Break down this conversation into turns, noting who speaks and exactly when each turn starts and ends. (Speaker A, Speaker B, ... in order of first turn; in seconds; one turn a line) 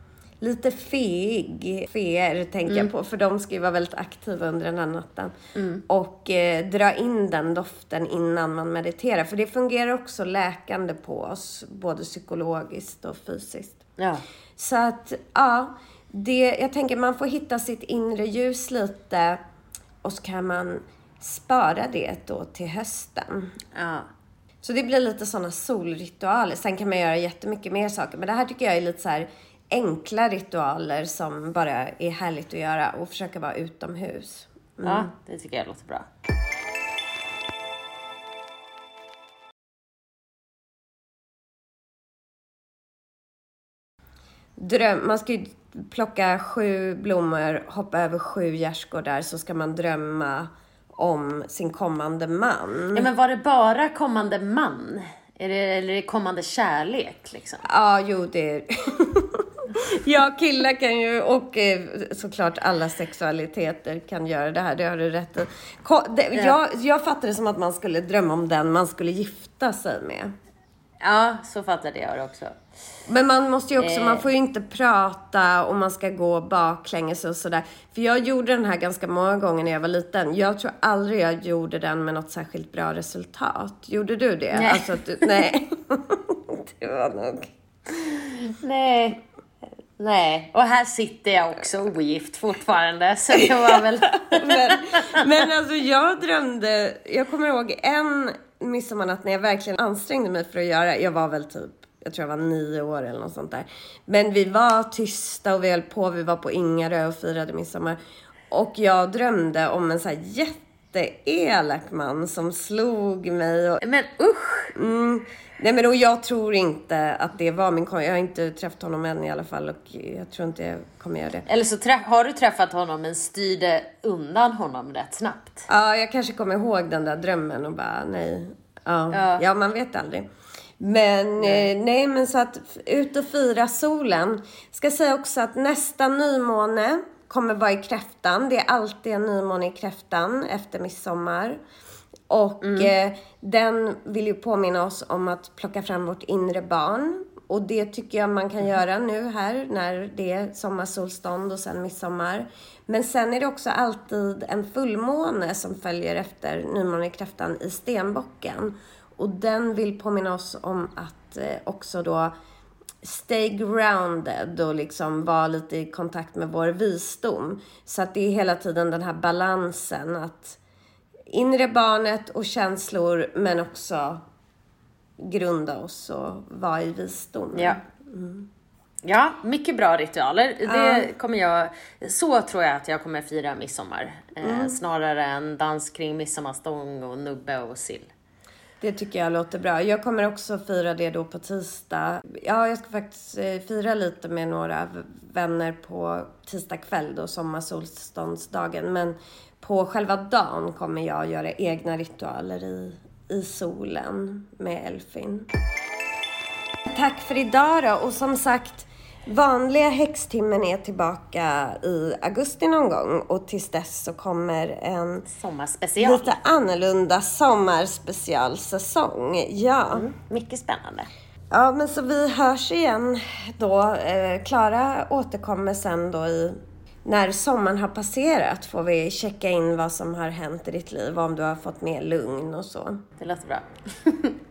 Speaker A: 0.4-5.3
Speaker B: 5.5-5.8
Speaker A: 5.9-13.8
Speaker B: 14.0-14.2
Speaker A: 14.6-19.4
Speaker A: 20.0-23.6
Speaker B: 23.8-24.1
Speaker A: 24.6-35.1
Speaker B: 34.8-36.1
Speaker A: 44.6-53.1
Speaker B: 52.9-57.6
Speaker A: 57.6-70.3
Speaker B: 71.0-72.5
Speaker A: 73.1-87.5
Speaker B: 73.8-74.3
Speaker B: 84.5-85.0
Speaker B: 87.9-89.2
Speaker B: 90.0-95.3
Speaker A: 93.4-108.0
Speaker A: 108.5-113.8
Speaker B: 113.8-114.8
Speaker A: 114.7-121.5
Speaker B: 121.5-125.7
Speaker A: 125.7-130.3
Speaker B: 129.1-129.4
Speaker A: 130.8-141.6
Speaker B: 131.4-131.7
Speaker A: 142.3-162.3
Speaker B: 142.6-142.9
Speaker A: 163.0-170.6
Speaker A: 171.3-174.2
Speaker A: 175.2-178.5
Speaker B: 177.6-177.8
Speaker B: 179.0-188.1
Speaker A: 180.6-181.1
Speaker A: 184.4-184.8
Speaker A: 188.8-205.5
Speaker A: 206.9-215.3
Speaker B: 215.3-216.4
Speaker A: 216.0-220.1
Speaker B: 219.9-221.1
Speaker A: 221.5-233.0
Speaker B: 233.2-234.4